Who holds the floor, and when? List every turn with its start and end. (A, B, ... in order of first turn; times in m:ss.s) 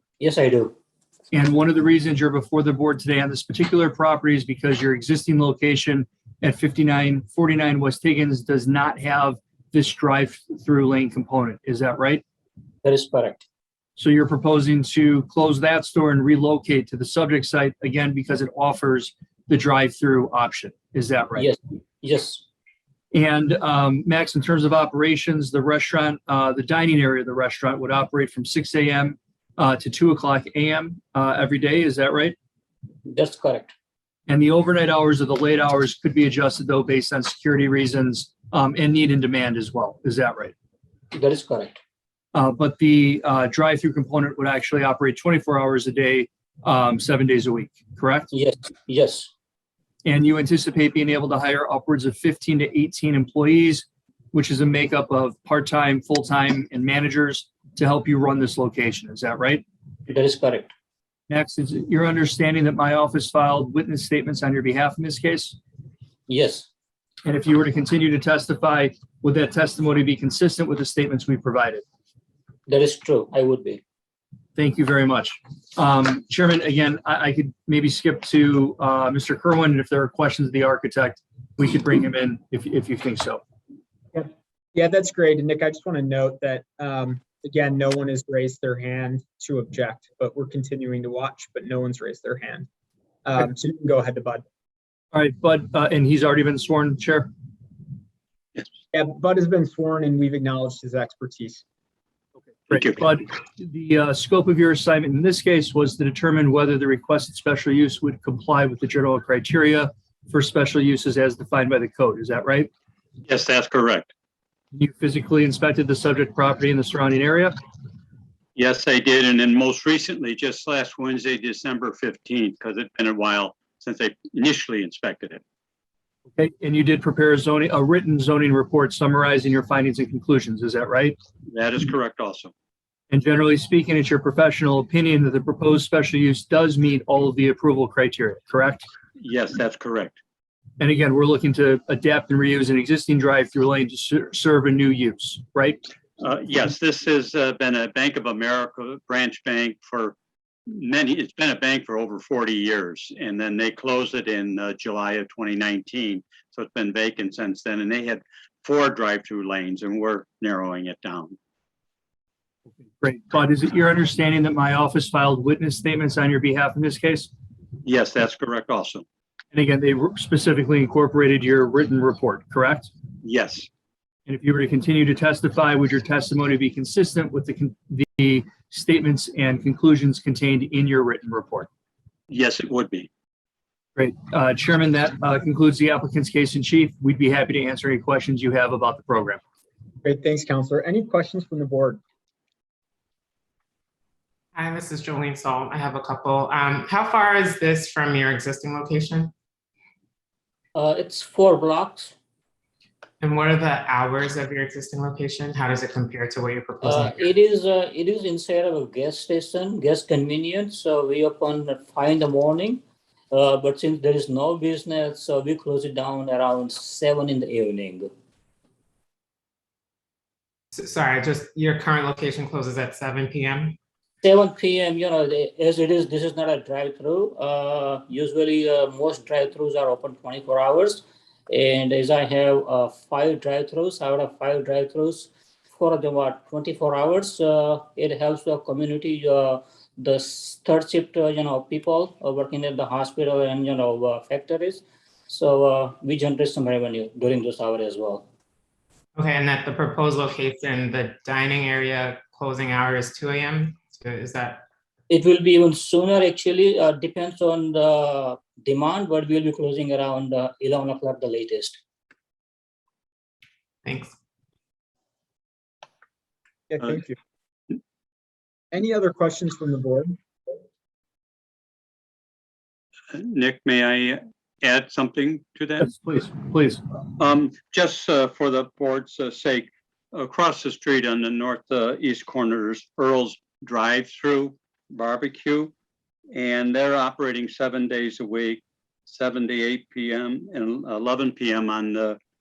0:00.2-0:00.8 A
0:01.3-0:12.2 B
0:12.8-0:13.4 A
0:14.0-0:21.5 B
0:21.4-0:22.4 A
0:23.1-0:32.4 B
0:33.1-0:33.7 A
0:34.3-0:40.5 B
0:41.1-0:41.8 A
0:42.3-0:48.3 B
0:48.3-0:49.3 A
0:50.0-0:59.6 B
1:00.1-1:00.7 A
1:01.3-1:05.6 B
1:06.3-1:06.7 A
1:07.3-1:11.8 B
1:12.7-1:13.8 A
1:14.6-1:23.4 B
1:24.1-1:32.7 C
1:33.2-1:34.4 C
1:35.1-1:37.3 B
1:38.9-1:41.6 C
1:42.7-1:52.7 B
1:53.2-1:54.1 D
1:54.7-1:57.6 B
1:58.6-2:05.4 D
2:06.3-2:11.2 B
2:11.5-2:12.5 D
2:13.1-2:18.8 B
2:19.2-2:20.2 D
2:20.8-2:25.8 B
2:26.2-2:30.2 D
2:30.7-2:41.4 D
2:43.0-2:47.3 B
2:47.8-2:49.0 D
2:49.5-2:52.9 B
2:53.2-2:53.7 D
2:54.3-3:01.7 B
3:02.3-3:03.1 D
3:04.0-3:09.4 B
3:10.0-3:12.0 C
3:14.5-3:19.3 E
3:20.8-3:22.1 A
3:23.2-3:27.2 E
3:26.8-3:38.1 A
3:40.7-3:43.8 E
3:44.2-4:08.3 A
4:09.2-4:14.6 E
4:15.1-4:21.8 A
4:23.8-4:24.1 E
4:26.7-4:27.2 C
4:28.7-4:30.2 C
4:33.1-4:35.9 D
4:35.8-4:36.8 B
4:37.2-4:45.7 D
4:46.3-4:52.2 D